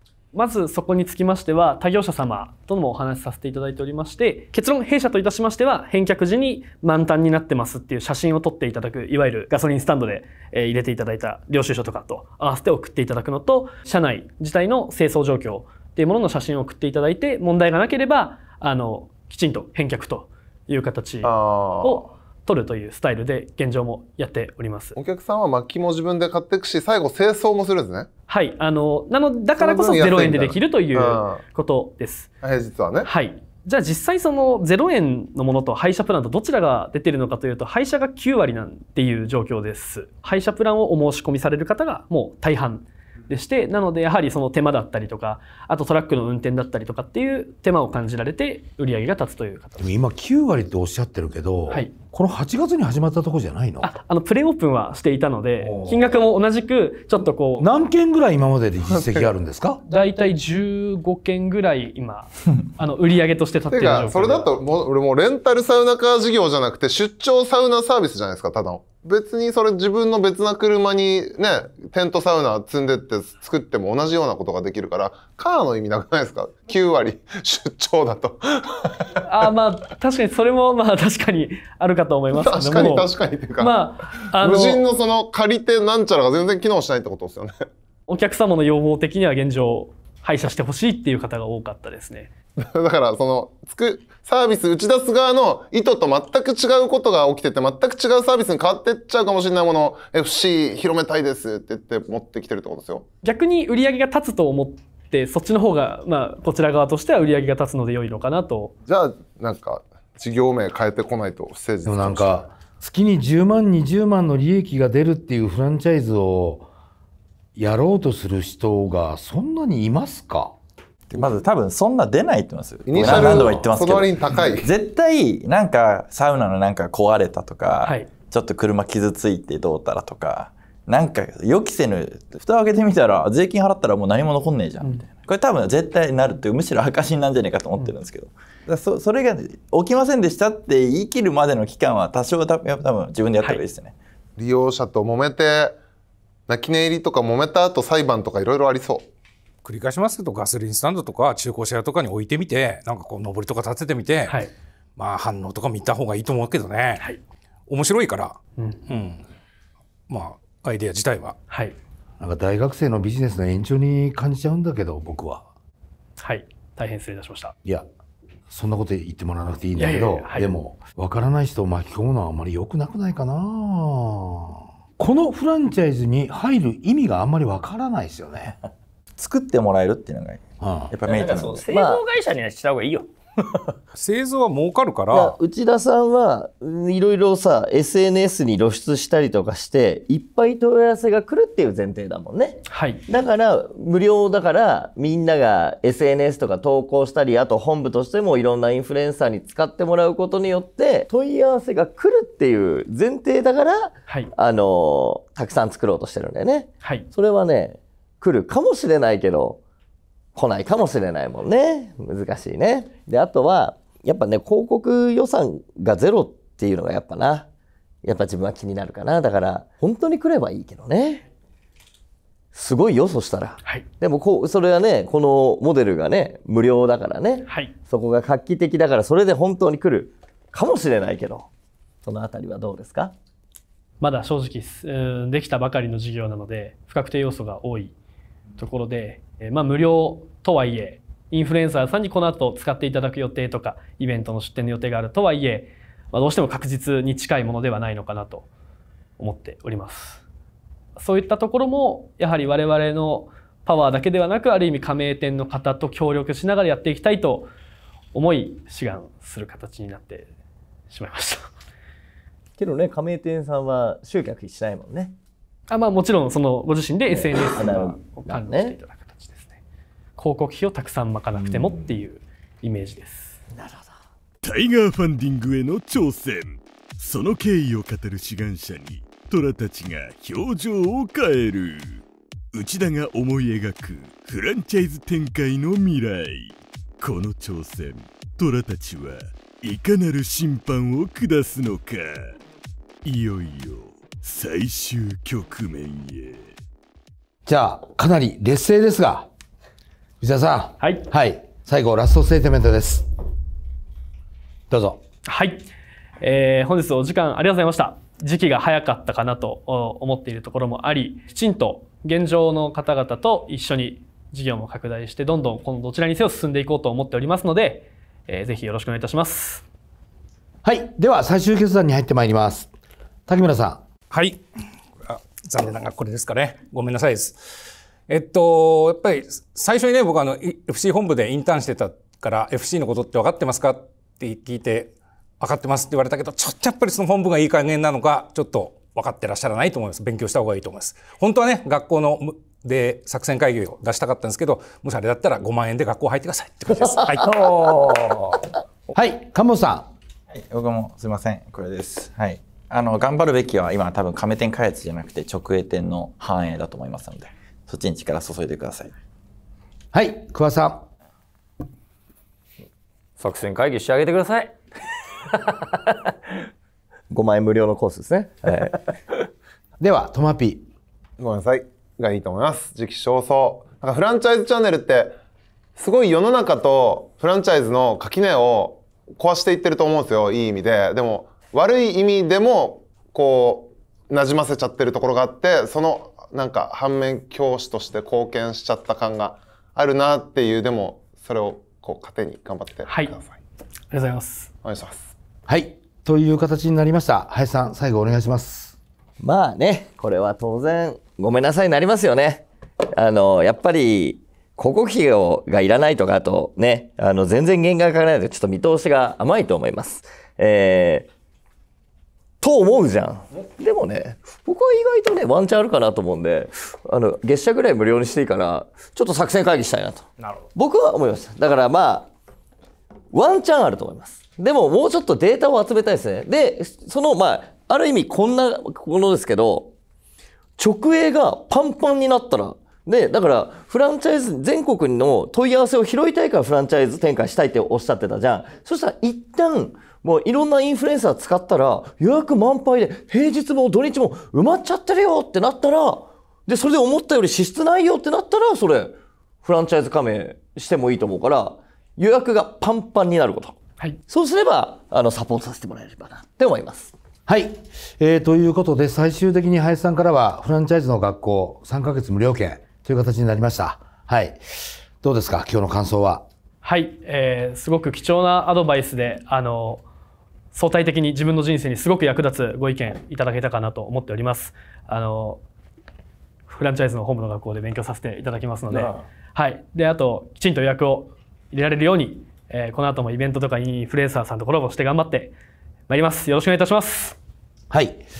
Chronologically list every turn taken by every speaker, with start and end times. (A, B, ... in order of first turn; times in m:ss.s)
0:00.3-0:25.0 A
0:21.2-0:22.1 B
0:25.0-0:28.1 B
0:28.3-0:32.3 A
0:29.6-0:31.4 B
0:32.4-0:33.1 B
0:33.0-0:49.9 A
0:49.8-0:53.9 C
0:53.8-0:57.7 A
0:55.6-0:56.0 C
0:57.6-0:59.8 C
0:58.9-0:59.3 B
0:59.9-1:04.5 A
1:03.7-1:19.1 B
1:19.2-1:24.8 A
1:22.3-1:23.8 B
1:24.3-1:27.6 B
1:28.1-1:32.3 A
1:32.6-1:43.0 B
1:43.2-1:48.7 A
1:48.9-1:52.5 B
1:51.8-1:56.7 C
1:57.6-2:00.5 C
2:01.1-2:23.9 D
2:02.9-2:04.7 B
2:24.4-2:25.8 B
2:26.5-2:29.0 B
2:29.6-2:34.4 E
2:35.0-2:37.0 E
2:37.7-2:39.2 E
2:40.1-2:41.4 E
2:41.5-2:41.8 A
2:42.2-2:45.5 C
2:46.2-2:47.5 A
2:48.5-2:58.6 C
2:49.8-2:50.5 A
2:59.2-3:01.7 D
3:00.6-3:00.9 C
3:01.0-3:03.1 F
3:01.7-3:02.0 G
3:04.0-3:05.4 E
3:05.1-3:29.6 G
3:12.7-3:13.0 A
3:26.8-3:27.1 A
3:30.4-3:37.5 G
3:38.0-3:41.2 G
3:42.5-3:51.5 G
3:47.5-3:47.7 A
3:52.0-3:53.1 G
3:54.0-3:57.9 A
3:58.6-4:08.5 A
4:09.2-4:10.2 A
4:11.0-4:17.5 A
4:18.1-4:20.3 A
4:20.9-4:21.5 A
4:22.6-4:25.2 G
4:25.7-4:29.6 A
4:27.1-4:28.8 G
4:30.2-4:33.4 A
4:33.5-4:33.9 G
4:34.4-4:52.4 H
4:53.0-4:56.5 H
4:57.5-4:59.3 C
5:00.2-5:03.1 C
5:00.8-5:01.0 A
5:04.7-5:05.0 C
5:05.3-5:05.7 A
5:06.2-5:19.6 A
5:20.6-5:22.7 C
5:23.3-5:23.8 C
5:24.1-5:24.4 E
5:25.0-5:27.5 E
5:28.1-5:48.4 E
5:47.1-5:48.2 F
5:48.9-5:49.9 C
5:50.3-5:58.9 D
5:59.9-6:00.8 C
6:03.2-6:04.6 F
6:07.1-6:08.8 G
6:09.8-6:10.7 C
6:11.2-6:15.2 B
6:15.8-6:33.4 B
6:32.9-6:33.2 A
6:33.9-6:34.5 A
6:34.6-6:35.1 B
6:35.5-6:38.8 C
6:39.2-6:42.4 G
6:43.0-6:51.1 G
6:52.4-7:02.1 G
7:03.1-7:09.7 G
7:10.6-7:33.6 G
7:34.1-7:36.9 G
7:37.3-7:46.2 C
7:46.6-7:49.8 A
7:50.5-7:55.4 A
7:56.5-8:05.3 A
7:58.7-7:59.0 F
8:05.9-8:07.2 A
8:07.7-8:08.0 C